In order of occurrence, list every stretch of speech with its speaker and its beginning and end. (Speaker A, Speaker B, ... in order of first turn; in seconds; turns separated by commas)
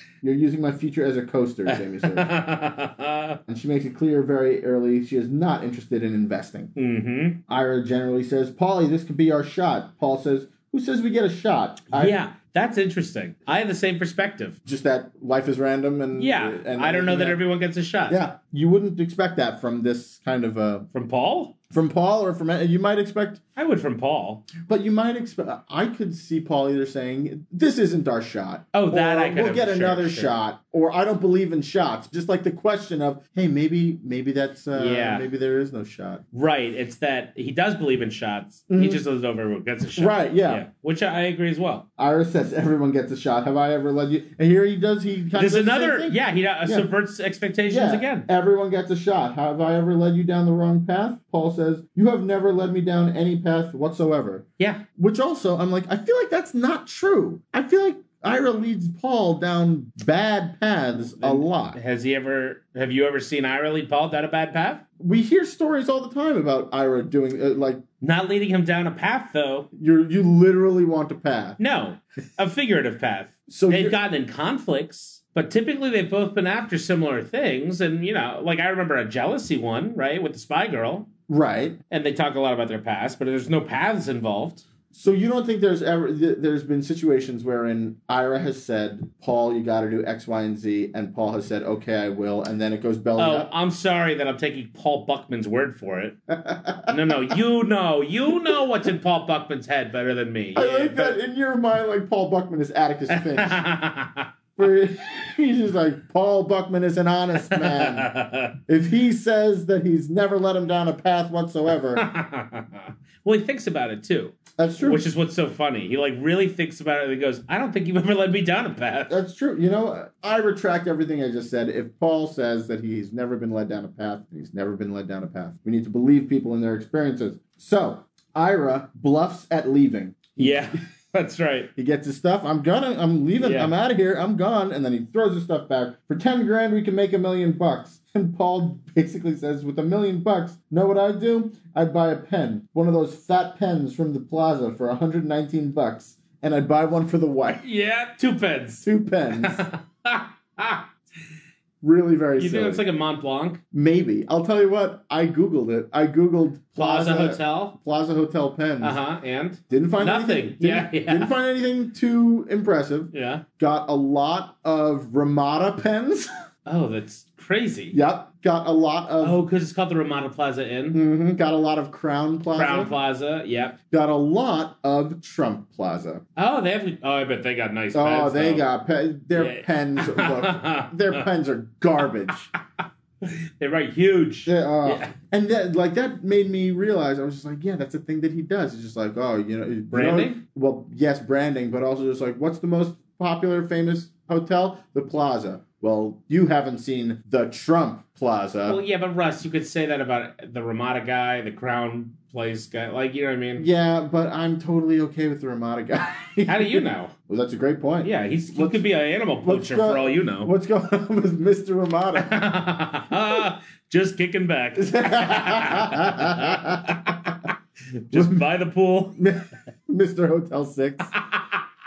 Speaker A: 0.2-2.3, Speaker B: 1.7-3.4, Speaker A: 3.5-6.7, Speaker B: 6.8-7.4, Speaker A: 7.5-12.2, Speaker B: 11.9-14.6, Speaker A: 14.7-17.4, Speaker B: 16.1-18.2, Speaker A: 18.1-20.9, Speaker B: 20.9-21.5, Speaker A: 21.7-23.4, Speaker B: 23.6-24.5, Speaker A: 24.6-36.2, Speaker B: 28.7-30.3, Speaker B: 34.8-35.3, Speaker B: 36.3-41.9, Speaker A: 38.7-39.0, Speaker A: 40.0-40.7, Speaker A: 42.0-46.9, Speaker B: 45.4-48.3, Speaker A: 47.7-54.5, Speaker B: 54.6-54.8, Speaker A: 55.0-61.8, Speaker B: 61.1-64.8, Speaker A: 65.0-67.8, Speaker B: 68.0-69.7, Speaker A: 69.7-71.6, Speaker B: 71.6-81.1, Speaker A: 73.5-74.0, Speaker A: 81.3-81.8, Speaker B: 81.9-84.6, Speaker A: 84.9-93.5, Speaker B: 93.2-96.2, Speaker A: 96.3-97.3, Speaker B: 96.9-101.2, Speaker A: 100.5-103.6, Speaker B: 103.1-104.3, Speaker A: 104.6-108.1, Speaker B: 107.4-108.5, Speaker A: 108.7-112.1, Speaker B: 112.0-119.2, Speaker A: 114.6-115.0, Speaker A: 119.1-130.8, Speaker B: 130.4-131.7, Speaker A: 131.8-147.7, Speaker B: 133.4-133.7, Speaker B: 147.6-150.9, Speaker A: 148.8-149.7, Speaker A: 151.8-152.9, Speaker B: 152.4-153.6, Speaker A: 153.7-159.0, Speaker B: 156.8-157.8, Speaker B: 158.8-161.4, Speaker A: 159.7-166.3, Speaker B: 163.1-163.4, Speaker B: 166.7-168.0, Speaker A: 167.9-169.4, Speaker B: 169.2-171.0, Speaker A: 170.9-173.0, Speaker B: 172.5-173.8, Speaker A: 173.9-176.2, Speaker B: 176.4-178.7, Speaker A: 177.9-182.5, Speaker B: 179.3-181.2, Speaker B: 183.2-185.1, Speaker A: 184.5-198.8, Speaker B: 189.9-190.4, Speaker B: 198.7-203.7, Speaker A: 203.6-208.9, Speaker B: 206.4-207.1, Speaker B: 208.0-210.5, Speaker A: 209.4-212.4, Speaker B: 212.2-217.3, Speaker A: 214.8-217.1, Speaker B: 218.1-219.2, Speaker A: 218.1-218.5, Speaker A: 219.2-221.1, Speaker B: 221.2-221.6